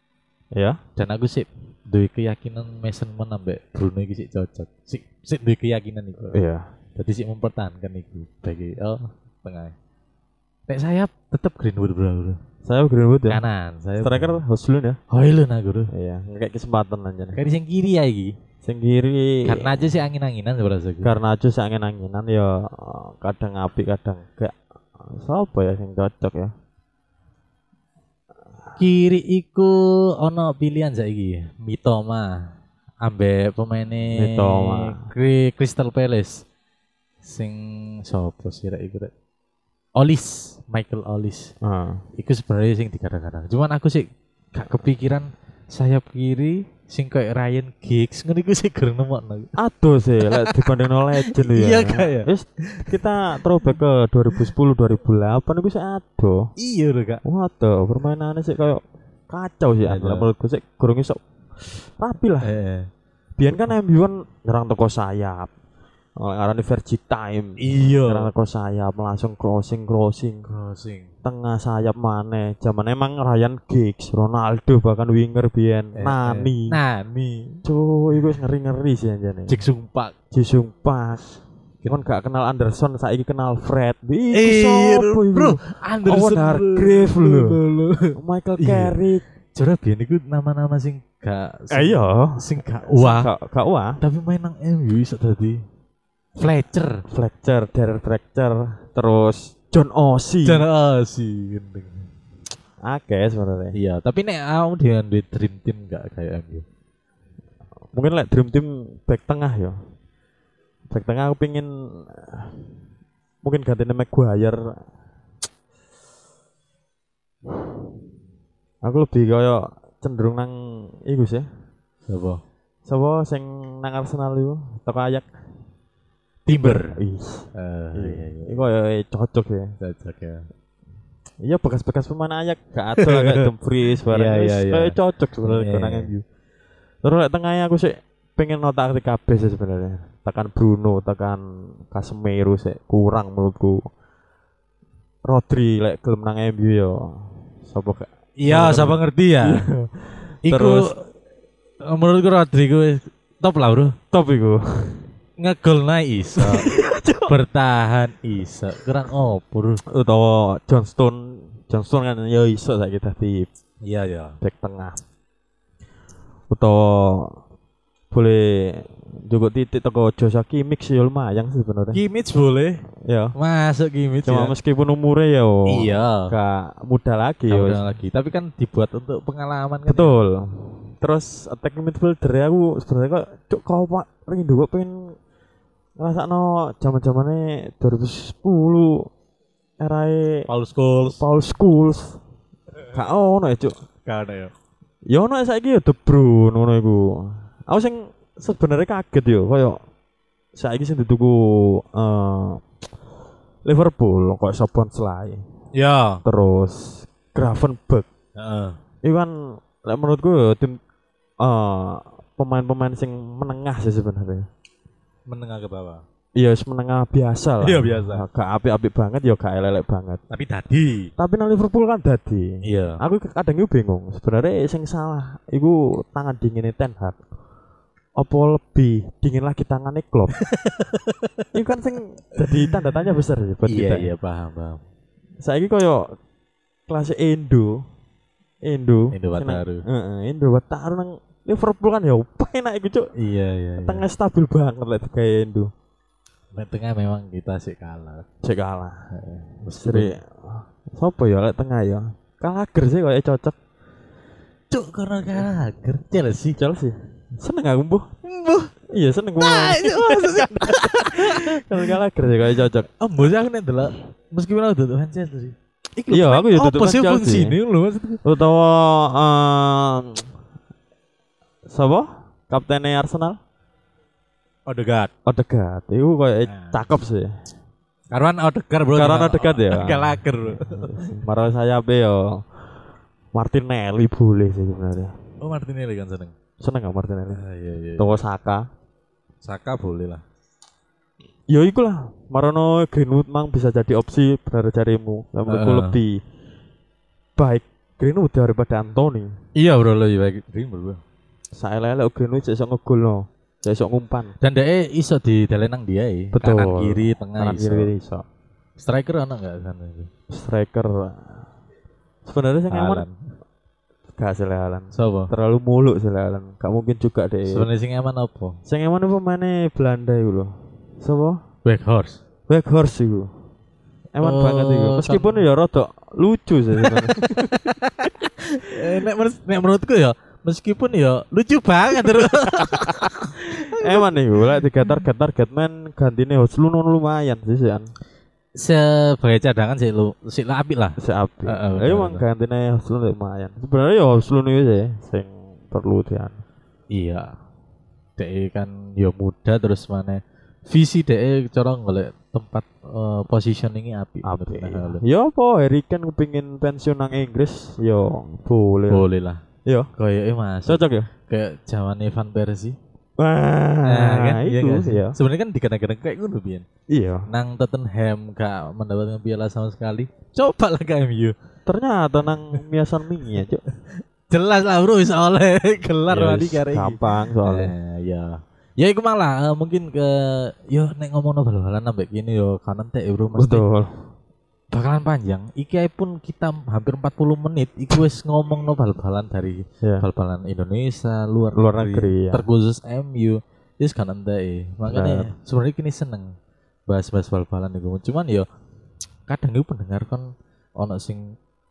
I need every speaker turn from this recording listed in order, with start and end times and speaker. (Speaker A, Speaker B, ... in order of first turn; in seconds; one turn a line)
Speaker A: 0.5-0.8
Speaker B: 1.0-6.4
Speaker A: 6.3-6.7
Speaker B: 7.0-9.7
Speaker B: 10.7-12.4
Speaker A: 12.6-13.4
Speaker B: 13.3-14.4
Speaker A: 14.0-15.0
Speaker B: 15.1-15.9
Speaker A: 15.9-17.4
Speaker B: 17.3-18.3
Speaker A: 18.6-19.9
Speaker B: 19.4-21.1
Speaker A: 21.0-26.5
Speaker B: 28.8-32.5
Speaker B: 33.0-36.4
Speaker A: 34.1-35.0
Speaker B: 37.2-39.1
Speaker B: 40.0-41.5
Speaker A: 41.6-42.0
Speaker B: 42.2-49.5
Speaker A: 49.6-56.5
Speaker B: 50.2-50.6
Speaker B: 51.2-53.0
Speaker B: 56.6-57.2
Speaker A: 57.2-62.5
Speaker B: 59.8-60.3
Speaker B: 62.4-62.9
Speaker A: 63.4-65.5
Speaker A: 66.2-70.5
Speaker B: 67.6-68.3
Speaker B: 70.5-71.1
Speaker A: 71.2-76.8
Speaker B: 76.0-77.6
Speaker A: 77.6-79.6
Speaker B: 79.5-80.1
Speaker A: 80.3-87.6
Speaker B: 84.3-89.0
Speaker A: 88.2-89.2
Speaker B: 89.5-93.3
Speaker A: 91.7-94.0
Speaker B: 94.0-95.6
Speaker B: 96.3-97.0
Speaker A: 97.1-100.6
Speaker B: 100.4-102.0
Speaker A: 102.8-103.7
Speaker B: 103.7-106.6
Speaker A: 107.9-109.7
Speaker A: 110.9-112.7
Speaker A: 113.4-114.7
Speaker A: 118.8-121.5
Speaker B: 122.1-122.4
Speaker A: 122.8-125.3
Speaker B: 126.5-127.0
Speaker A: 126.5-129.7
Speaker B: 127.5-128.7
Speaker B: 129.8-130.5
Speaker A: 131.4-136.2
Speaker B: 133.0-133.5
Speaker B: 134.1-136.1
Speaker A: 137.0-143.8
Speaker A: 145.2-150.9
Speaker B: 148.4-149.7
Speaker B: 150.4-151.0
Speaker B: 151.8-154.0
Speaker A: 154.1-155.1
Speaker B: 155.4-156.7
Speaker A: 156.4-157.3
Speaker B: 157.3-159.8
Speaker A: 159.8-163.5
Speaker B: 163.8-164.4
Speaker A: 164.4-165.0
Speaker A: 166.5-167.4
Speaker A: 168.1-172.0
Speaker B: 171.9-174.5
Speaker A: 173.0-173.3
Speaker A: 174.2-177.8
Speaker B: 175.7-176.3
Speaker B: 177.5-180.2
Speaker A: 179.9-185.0
Speaker A: 186.0-189.1
Speaker A: 189.8-190.5
Speaker B: 190.5-191.2
Speaker A: 191.2-192.2
Speaker A: 192.9-193.7
Speaker B: 194.1-194.5
Speaker A: 195.1-199.8
Speaker A: 200.5-202.6
Speaker A: 203.6-205.4
Speaker B: 205.7-206.2
Speaker A: 206.2-208.1
Speaker B: 208.4-208.8
Speaker A: 209.0-210.8
Speaker A: 211.4-214.4
Speaker B: 215.3-216.0
Speaker A: 216.3-220.2
Speaker B: 217.6-218.2
Speaker B: 220.3-221.1
Speaker A: 221.2-227.2
Speaker B: 222.6-223.0
Speaker A: 228.2-230.3
Speaker B: 230.4-231.5
Speaker A: 231.5-234.1
Speaker B: 232.4-232.7
Speaker B: 233.7-234.8
Speaker A: 235.4-236.1
Speaker A: 236.9-237.8
Speaker A: 238.6-243.1
Speaker B: 239.1-239.8
Speaker B: 243.2-244.0
Speaker A: 243.8-245.7
Speaker B: 246.5-248.2
Speaker A: 248.4-249.0
Speaker B: 249.1-250.1
Speaker A: 249.7-253.6
Speaker B: 254.7-256.6
Speaker A: 256.6-258.1
Speaker B: 258.2-258.7
Speaker A: 258.9-262.9
Speaker B: 259.4-261.9
Speaker B: 263.0-268.2
Speaker A: 266.1-267.6
Speaker A: 268.2-270.3
Speaker A: 271.7-273.4
Speaker B: 274.7-275.1
Speaker A: 275.2-277.3
Speaker B: 276.4-276.8
Speaker B: 278.1-281.1
Speaker A: 278.9-282.4
Speaker A: 283.3-285.1
Speaker B: 285.4-286.3
Speaker A: 286.6-287.4
Speaker B: 287.3-288.2
Speaker A: 288.0-288.6
Speaker B: 289.4-290.2
Speaker A: 291.5-296.2
Speaker B: 295.5-296.0
Speaker A: 297.4-299.3
Speaker B: 299.6-301.0
Speaker A: 301.6-304.3
Speaker B: 304.4-307.9
Speaker A: 306.3-308.2
Speaker B: 308.8-310.1
Speaker A: 310.3-311.4
Speaker A: 312.2-313.0
Speaker B: 312.7-313.1
Speaker A: 314.2-317.7
Speaker B: 314.9-315.3
Speaker B: 317.5-318.6
Speaker A: 318.6-321.4
Speaker B: 321.6-322.2
Speaker A: 322.5-323.3
Speaker A: 324.1-327.5
Speaker B: 324.2-325.5
Speaker B: 326.8-334.2
Speaker A: 331.9-333.1
Speaker A: 333.7-337.9
Speaker B: 338.6-342.2
Speaker A: 341.0-346.4
Speaker B: 346.9-347.3
Speaker B: 348.2-355.0
Speaker A: 354.2-359.1
Speaker B: 358.9-359.4
Speaker B: 360.0-362.8
Speaker A: 360.7-361.1
Speaker A: 363.2-365.1
Speaker B: 363.8-366.6
Speaker A: 366.9-367.3
Speaker B: 367.3-371.4
Speaker A: 371.6-373.6
Speaker B: 374.3-383.6
Speaker A: 376.1-377.7
Speaker A: 383.3-383.9
Speaker B: 384.7-396.3
Speaker A: 391.5-392.4
Speaker A: 394.9-395.3
Speaker B: 396.9-398.4
Speaker B: 399.3-401.4